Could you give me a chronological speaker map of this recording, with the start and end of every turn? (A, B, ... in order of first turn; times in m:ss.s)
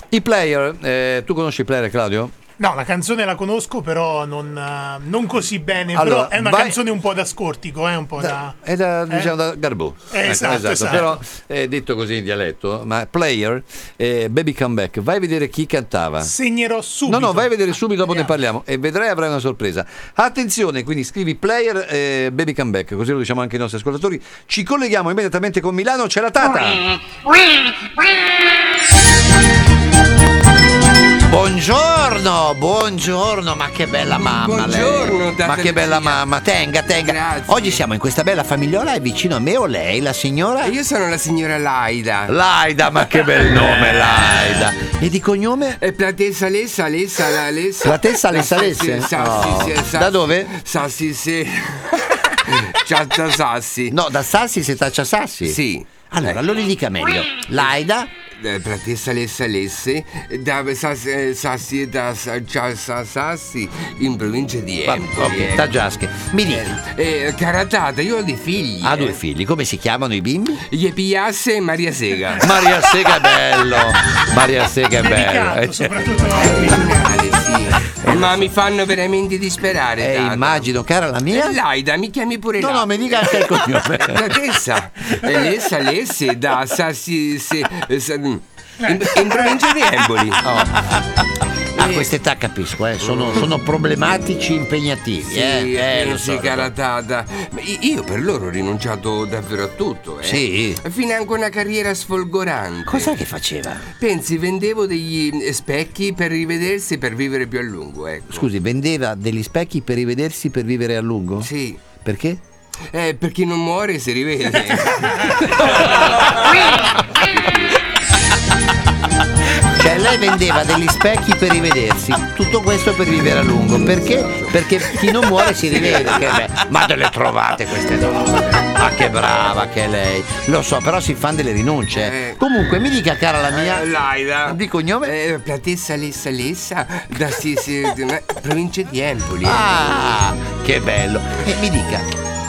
0:00.1-0:02.3 A
0:02.6-0:08.6 B
0:05.9-0:06.8 A
0:08.2-0:16.3 A
0:10.1-0:11.1 B
0:16.2-0:17.5 B
0:17.0-0:26.8 A
0:31.2-0:40.8 A
0:34.0-0:36.2 C
0:36.9-0:37.8 C
0:40.6-0:42.4 C
0:42.3-0:45.8 A
0:43.0-0:44.7 C
0:45.8-0:54.0 C
0:47.8-0:50.5 A
0:53.9-0:55.6 A
0:55.4-0:56.4 C
0:56.1-0:58.1 A
0:58.4-1:05.8 C
1:04.8-1:06.8 A
1:06.4-1:09.2 C
1:08.8-1:10.6 A
1:10.7-1:12.6 C
1:12.4-1:16.0 A
1:15.0-1:17.1 B
1:16.3-1:20.7 C
1:18.0-1:18.5 A
1:20.0-1:21.6 A
1:21.3-1:30.4 C
1:22.6-1:24.4 A
1:30.4-1:36.7 A
1:31.8-1:32.1 C
1:33.0-1:33.5 C
1:35.2-1:43.2 C
1:40.2-1:40.8 A
1:42.9-1:43.9 A
1:44.0-1:48.5 C
1:48.3-1:51.5 A
1:51.4-1:51.8 C
1:52.0-1:52.4 A
1:52.9-1:57.9 C
1:59.7-2:15.1 A
2:04.0-2:06.5 C
2:11.9-2:12.4 C
2:13.5-2:19.7 C
2:19.4-2:22.1 A